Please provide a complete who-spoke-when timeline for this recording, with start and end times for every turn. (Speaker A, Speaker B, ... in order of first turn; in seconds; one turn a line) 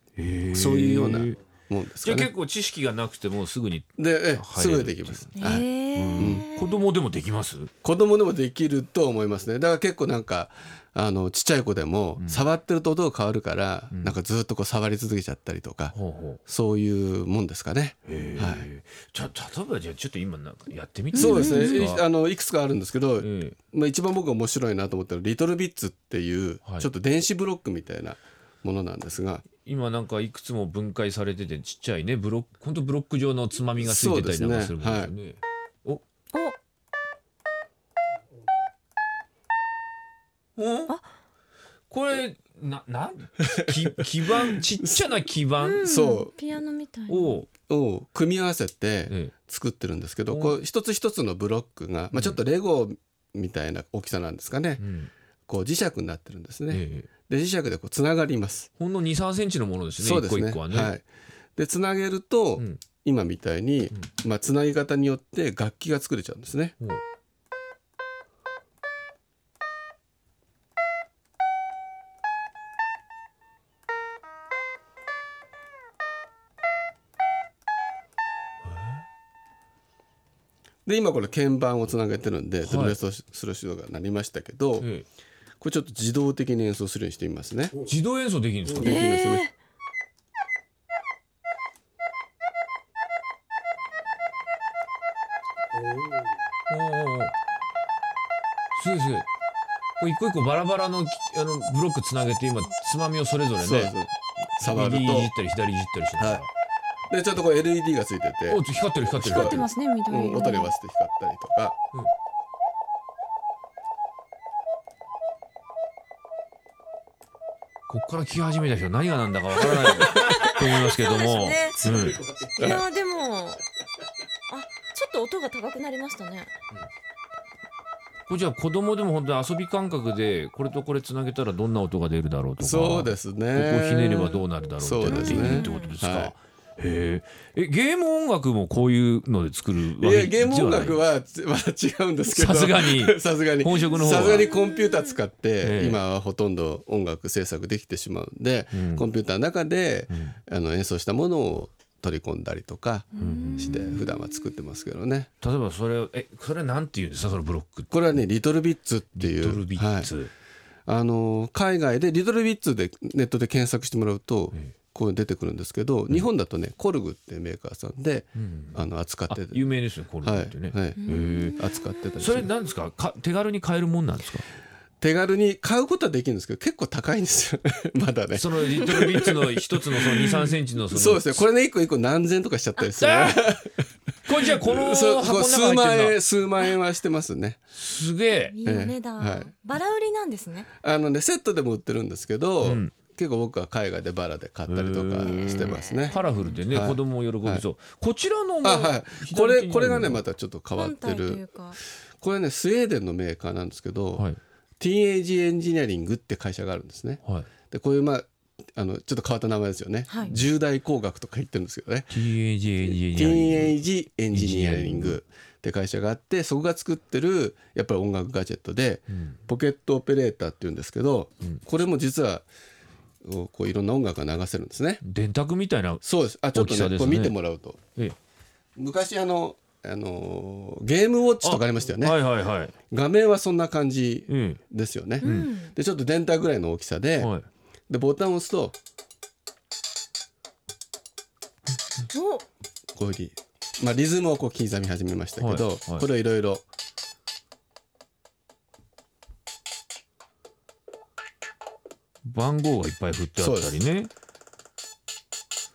Speaker A: 0.2-1.4
Speaker B: 0.5-2.3
Speaker A: 2.0-7.7
Speaker B: 4.0-5.7
Speaker C: 5.4-6.8
Speaker B: 6.2-6.5
Speaker B: 7.8-15.9
Speaker A: 12.2-12.4
Speaker A: 13.9-14.2
Speaker A: 15.9-16.4
Speaker B: 16.5-18.7
Speaker A: 18.1-22.0
Speaker C: 21.1-21.9
Speaker B: 21.1-29.4
Speaker A: 23.2-23.6
Speaker A: 29.6-36.0
Speaker B: 33.8-35.1
Speaker A: 40.6-40.9
Speaker A: 41.9-45.8
Speaker B: 43.5-45.2
Speaker C: 45.6-47.4
Speaker B: 45.8-46.3
Speaker A: 47.1-47.5
Speaker B: 47.7-54.8
Speaker A: 50.3-50.6
Speaker A: 52.1-52.4
Speaker A: 54.8-55.1
Speaker B: 55.5-58.7
Speaker A: 56.7-57.1
Speaker A: 58.8-61.0
Speaker B: 60.0-61.0
Speaker B: 61.6-66.8
Speaker B: 80.9-84.9
Speaker A: 82.6-83.0
Speaker A: 84.8-85.1
Speaker B: 85.6-87.8
Speaker A: 87.8-89.1
Speaker B: 88.7-89.5
Speaker C: 88.8-89.5
Speaker A: 96.7-97.3
Speaker A: 98.8-99.3
Speaker A: 100.0-104.0
Speaker B: 103.6-105.3
Speaker A: 104.6-106.5
Speaker B: 107.1-111.8
Speaker A: 108.5-109.7
Speaker C: 109.2-110.7
Speaker A: 117.9-122.2
Speaker C: 120.1-122.0
Speaker B: 121.9-122.8
Speaker C: 122.6-123.6
Speaker C: 124.5-126.5
Speaker A: 128.3-141.0
Speaker B: 132.6-136.3
Speaker C: 135.1-135.9
Speaker B: 140.0-155.3
Speaker A: 142.3-144.5
Speaker C: 143.8-145.2
Speaker A: 145.6-146.0
Speaker A: 148.7-149.1
Speaker A: 150.1-150.4
Speaker C: 153.1-154.1
Speaker A: 153.2-154.0
Speaker A: 155.4-157.9
Speaker B: 157.9-160.1
Speaker A: 159.2-160.3
Speaker B: 160.9-171.0
Speaker A: 168.4-171.6
Speaker C: 171.0-172.2
Speaker B: 171.6-172.5
Speaker A: 172.2-174.5
Speaker B: 175.0-183.8
Speaker A: 178.3-181.4
Speaker C: 182.8-183.0
Speaker A: 183.0-183.5
Speaker A: 184.3-186.2
Speaker B: 184.3-187.6
Speaker A: 187.7-188.6
Speaker C: 188.3-190.7
Speaker B: 188.6-189.5
Speaker B: 190.8-196.2
Speaker A: 192.6-192.9
Speaker A: 194.7-200.2
Speaker C: 195.2-196.6
Speaker B: 196.7-197.7
Speaker B: 198.6-201.4
Speaker C: 200.7-201.8
Speaker B: 202.2-204.3
Speaker B: 204.8-212.1
Speaker C: 210.1-210.3
Speaker A: 212.1-213.8
Speaker B: 212.8-222.5
Speaker A: 214.3-215.2
Speaker B: 223.2-225.0
Speaker A: 225.0-227.3
Speaker B: 226.0-227.8
Speaker B: 228.8-232.2
Speaker A: 231.4-232.7
Speaker B: 232.9-237.3
Speaker A: 234.3-234.6
Speaker C: 235.2-235.7
Speaker A: 235.2-235.5
Speaker A: 237.2-237.5
Speaker B: 237.9-238.8
Speaker C: 242.1-242.4
Speaker B: 243.0-246.7
Speaker A: 245.4-246.1
Speaker A: 252.3-254.1
Speaker B: 253.4-253.8